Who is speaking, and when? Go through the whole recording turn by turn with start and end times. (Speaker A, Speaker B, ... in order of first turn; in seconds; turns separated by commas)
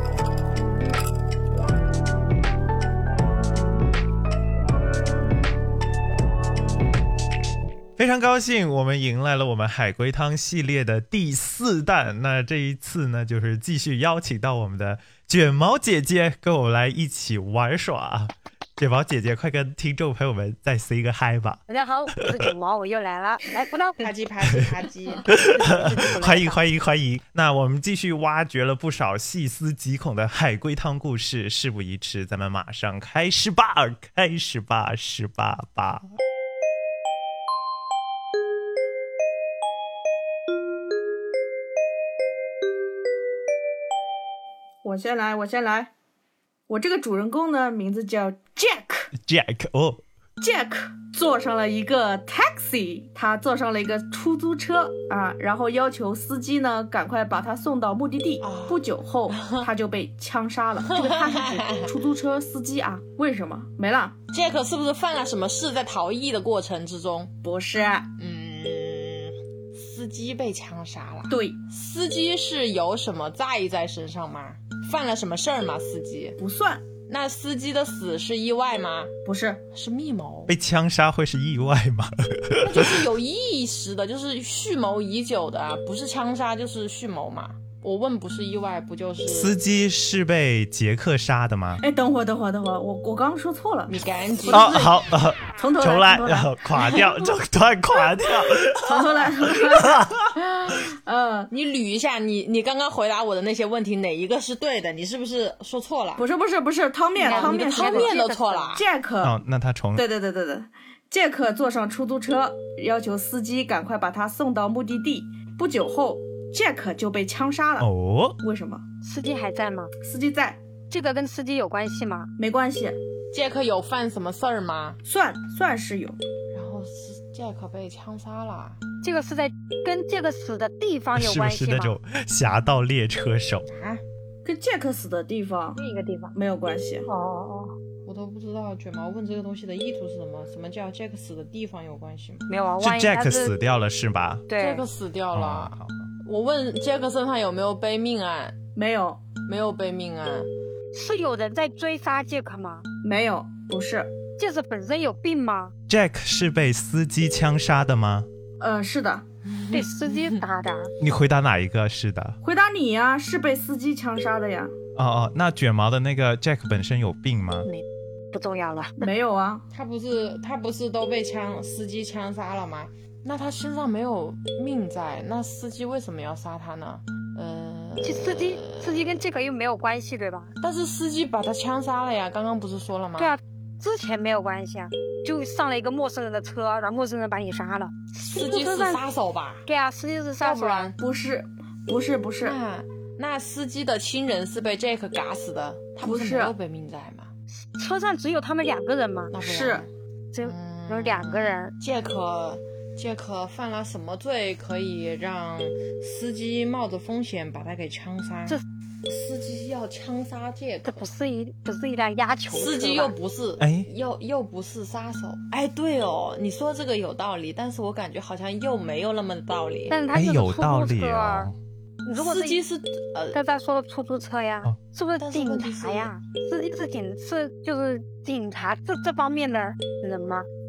Speaker A: 8.0-21.6, Speaker B: 21.7-24.0, Speaker C: 24.0-25.4, Speaker A: 25.3-36.0, Speaker B: 25.6-26.6, Speaker D: 44.8-45.9, Speaker D: 46.7-49.1, Speaker A: 49.2-50.0, Speaker D: 50.4-64.2, Speaker C: 58.4-59.7, Speaker C: 60.8-61.9, Speaker C: 64.3-67.3, Speaker D: 67.4-68.1, Speaker C: 68.2-76.4, Speaker D: 71.3-71.6, Speaker D: 76.4-76.8, Speaker C: 77.1-79.1, Speaker D: 79.2-79.6, Speaker C: 79.7-80.5, Speaker A: 80.5-83.0, Speaker C: 82.6-89.6, Speaker A: 89.3-91.8, Speaker D: 91.8-97.1, Speaker C: 93.9-94.8, Speaker A: 94.5-100.3, Speaker D: 98.7-100.0, Speaker C: 100.4-100.9, Speaker D: 100.9-101.5, Speaker C: 101.5-106.2, Speaker D: 106.2-108.1, Speaker B: 107.2-108.8, Speaker C: 107.2-108.8, Speaker D: 108.8-109.4, Speaker A: 109.2-110.1, Speaker D: 110.0-117.9, Speaker A: 117.8-118.4, Speaker D: 118.4-118.8, Speaker B: 119.0-119.9, Speaker D: 120.0-120.6, Speaker B: 120.9-122.3, Speaker D: 122.4-123.0, Speaker C: 123.3-125.0, Speaker D: 125.0-126.2, Speaker C: 126.5-128.8, Speaker B: 129.0-132.0, Speaker A: 131.2-133.7, Speaker C: 133.7-134.0, Speaker D: 134.4-135.8, Speaker B: 135.8-136.4, Speaker D: 136.3-137.1, Speaker B: 137.1-137.7, Speaker C: 138.1-142.5, Speaker B: 142.5-143.5, Speaker A: 142.8-144.5, Speaker B: 144.5-144.8, Speaker C: 144.6-148.6, Speaker A: 145.3-146.1, Speaker D: 148.8-149.2, Speaker C: 149.4-150.5, Speaker B: 150.9-152.9, Speaker D: 153.0-154.1, Speaker B: 154.4-155.7, Speaker A: 155.9-158.3, Speaker D: 158.6-159.2, Speaker C: 159.4-160.4, Speaker B: 159.7-160.9, Speaker A: 161.0-162.4, Speaker D: 162.4-164.7, Speaker A: 165.0-167.7, Speaker B: 167.7-169.1, Speaker D: 169.0-169.7, Speaker C: 169.7-179.1, Speaker B: 178.0-180.5, Speaker C: 180.6-183.3, Speaker B: 183.2-189.0, Speaker C: 188.2-189.7, Speaker B: 189.7-190.9, Speaker C: 190.4-191.0, Speaker D: 191.0-192.6, Speaker C: 192.4-197.3, Speaker D: 196.0-196.5, Speaker B: 197.8-199.3, Speaker C: 199.3-199.9, Speaker D: 199.4-199.9, Speaker B: 200.3-201.7, Speaker C: 200.4-211.1, Speaker B: 210.8-213.2, Speaker C: 212.5-220.0, Speaker A: 213.6-213.9, Speaker B: 219.9-221.5, Speaker A: 220.1-221.6, Speaker B: 222.1-222.6, Speaker C: 222.2-223.4, Speaker B: 223.3-230.5, Speaker C: 225.2-226.1